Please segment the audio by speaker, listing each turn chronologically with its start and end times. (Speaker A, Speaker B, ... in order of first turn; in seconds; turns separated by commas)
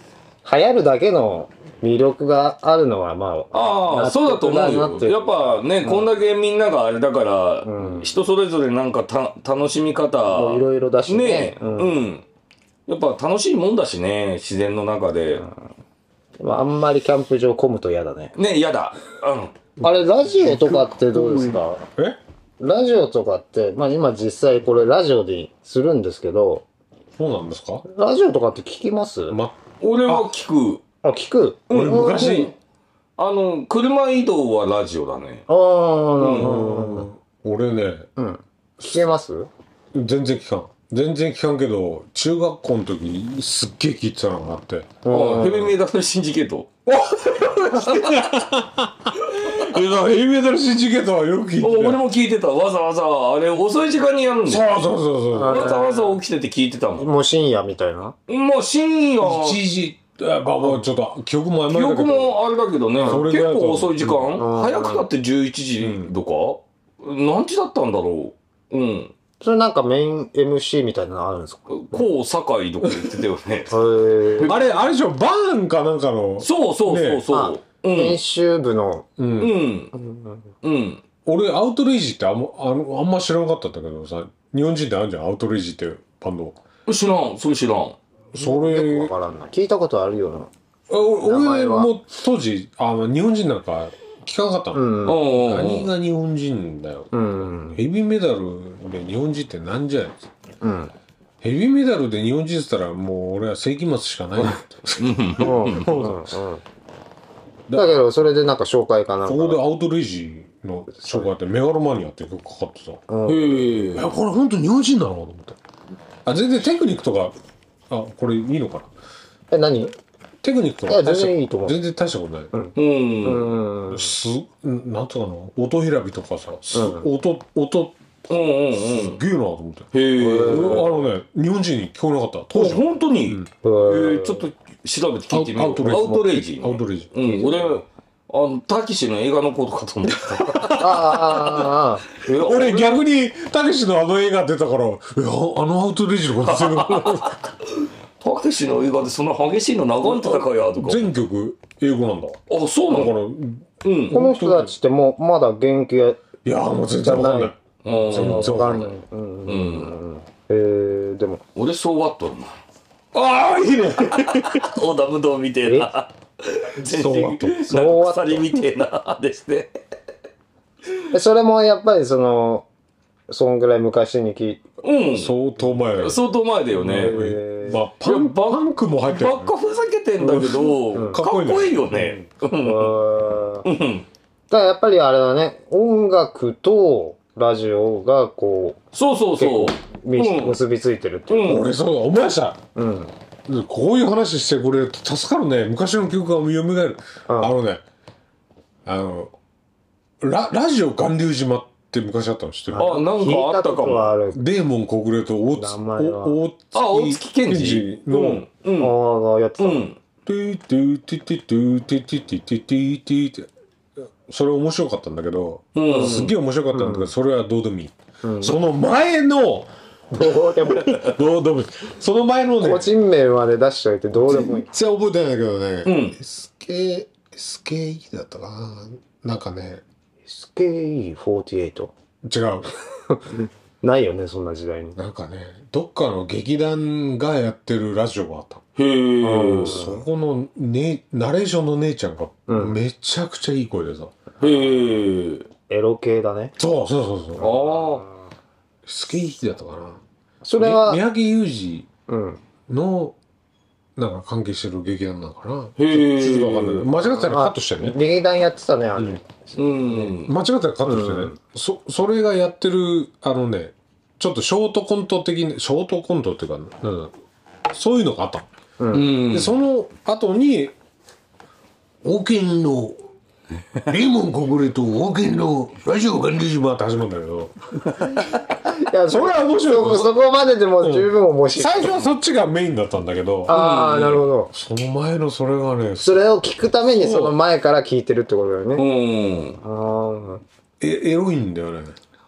Speaker A: 0.4-6.1, Speaker B: 3.5-12.2, Speaker A: 7.6-8.2, Speaker A: 10.3-12.0, Speaker B: 12.9-15.4, Speaker A: 16.4-18.3, Speaker B: 18.4-19.6, Speaker A: 19.8-21.9, Speaker C: 19.8-22.2, Speaker A: 22.6-26.6, Speaker C: 27.2-27.9, Speaker A: 27.9-29.4, Speaker C: 29.3-30.3, Speaker B: 29.8-30.8, Speaker A: 31.0-32.5, Speaker B: 31.7-32.5, Speaker C: 31.7-32.5, Speaker B: 33.2-35.4, Speaker A: 35.5-37.1, Speaker B: 36.2-36.5, Speaker C: 36.4-38.1, Speaker A: 38.2-39.5, Speaker C: 39.9-45.0, Speaker A: 45.0-45.7, Speaker B: 45.1-46.7, Speaker C: 46.9-52.0, Speaker B: 47.4-48.4, Speaker B: 51.6-54.6, Speaker C: 54.5-55.8, Speaker A: 55.3-56.2, Speaker B: 55.5-57.1, Speaker A: 57.0-58.1, Speaker B: 58.3-59.6, Speaker C: 59.2-62.4, Speaker B: 61.7-69.1, Speaker C: 63.0-64.4, Speaker A: 64.4-65.1, Speaker C: 65.8-66.2, Speaker A: 69.4-72.0, Speaker B: 71.7-73.8, Speaker C: 72.8-73.2, Speaker A: 73.7-74.5, Speaker C: 74.4-77.3, Speaker B: 76.4-78.2, Speaker A: 77.3-79.1, Speaker C: 79.2-79.6, Speaker B: 79.4-79.9, Speaker A: 79.9-80.5, Speaker B: 80.6-81.0, Speaker C: 81.2-86.6, Speaker B: 86.9-88.0, Speaker C: 88.3-89.1, Speaker A: 88.3-90.5, Speaker C: 90.9-100.3, Speaker A: 91.2-91.9, Speaker A: 94.7-95.2, Speaker B: 95.0-95.9, Speaker A: 97.1-97.8, Speaker A: 100.6-100.9, Speaker C: 101.4-106.2, Speaker B: 105.0-106.0, Speaker A: 105.4-106.6, Speaker C: 107.7-108.0, Speaker A: 107.7-109.6, Speaker C: 109.3-113.0, Speaker A: 110.9-111.3, Speaker A: 113.1-113.9, Speaker B: 113.3-114.0, Speaker C: 113.9-115.6, Speaker C: 116.2-117.3, Speaker C: 117.9-118.9, Speaker A: 119.5-120.0, Speaker C: 120.4-122.5, Speaker A: 120.9-121.8, Speaker A: 122.5-124.1, Speaker B: 122.8-123.6, Speaker C: 123.9-128.2, Speaker A: 126.7-127.0, Speaker B: 128.3-129.2, Speaker C: 128.7-133.5, Speaker B: 129.9-130.9, Speaker A: 130.2-130.9, Speaker B: 132.5-140.8, Speaker A: 133.6-134.5, Speaker C: 135.3-137.6, Speaker C: 140.4-141.7, Speaker A: 140.8-142.1, Speaker B: 142.2-143.0, Speaker C: 142.3-147.4, Speaker B: 146.4-151.1, Speaker C: 150.0-154.7, Speaker B: 152.5-153.2, Speaker B: 153.8-154.3, Speaker A: 154.1-156.2, Speaker C: 156.4-158.9, Speaker A: 157.0-157.5, Speaker B: 157.8-158.9, Speaker A: 158.1-161.4, Speaker B: 159.5-159.9, Speaker B: 161.6-162.5, Speaker C: 163.1-164.7, Speaker B: 164.0-169.8, Speaker C: 166.8-167.9, Speaker A: 167.7-168.5, Speaker A: 171.1-172.7, Speaker A: 173.3-174.6, Speaker B: 174.8-175.3, Speaker C: 175.1-179.5, Speaker B: 176.0-177.2, Speaker A: 176.9-177.8, Speaker B: 178.0-183.0, Speaker C: 180.2-182.2, Speaker A: 180.9-181.2, Speaker A: 182.6-183.7, Speaker B: 183.6-184.1, Speaker A: 184.5-188.8, Speaker B: 188.9-190.6, Speaker A: 189.4-191.6, Speaker B: 191.3-191.6, Speaker C: 191.4-192.6, Speaker A: 192.8-193.1, Speaker C: 193.5-197.8, Speaker A: 197.3-197.5, Speaker C: 198.9-199.3, Speaker C: 200.2-203.0, Speaker A: 202.7-204.4, Speaker B: 202.8-204.2, Speaker C: 204.3-208.5, Speaker A: 205.6-206.4, Speaker B: 206.7-208.9, Speaker A: 208.8-209.8, Speaker B: 209.6-210.0, Speaker C: 210.3-213.5, Speaker C: 214.2-222.9, Speaker B: 215.8-216.3, Speaker A: 215.9-217.1, Speaker A: 218.2-218.6, Speaker A: 220.2-221.0, Speaker A: 222.6-224.7, Speaker C: 224.1-229.8, Speaker B: 225.8-226.2, Speaker A: 230.2-231.9, Speaker C: 232.2-232.7, Speaker A: 233.1-235.0, Speaker C: 235.0-238.6, Speaker B: 238.8-239.8, Speaker A: 239.2-240.0, Speaker C: 239.5-244.2, Speaker A: 242.5-242.8, Speaker B: 244.4-245.5, Speaker A: 245.7-246.5, Speaker C: 246.6-247.5, Speaker B: 247.4-248.1, Speaker A: 247.4-248.2, Speaker C: 248.8-250.0, Speaker A: 250.4-251.0, Speaker C: 250.6-251.9, Speaker A: 252.1-252.4, Speaker C: 252.7-253.2, Speaker C: 254.0-258.0, Speaker B: 255.8-256.9, Speaker A: 257.0-260.1, Speaker B: 259.6-260.3, Speaker C: 260.2-267.1, Speaker A: 260.9-261.4, Speaker C: 267.7-268.5, Speaker A: 268.8-269.2, Speaker B: 268.9-269.6, Speaker C: 269.2-270.8, Speaker C: 272.0-273.0, Speaker C: 273.9-277.6, Speaker A: 278.8-282.0, Speaker C: 279.1-280.1, Speaker C: 280.8-283.6, Speaker A: 283.5-284.5, Speaker B: 283.5-284.3, Speaker C: 284.5-287.4, Speaker A: 286.0-288.9, Speaker B: 288.8-289.6, Speaker A: 289.6-290.4, Speaker C: 290.8-292.0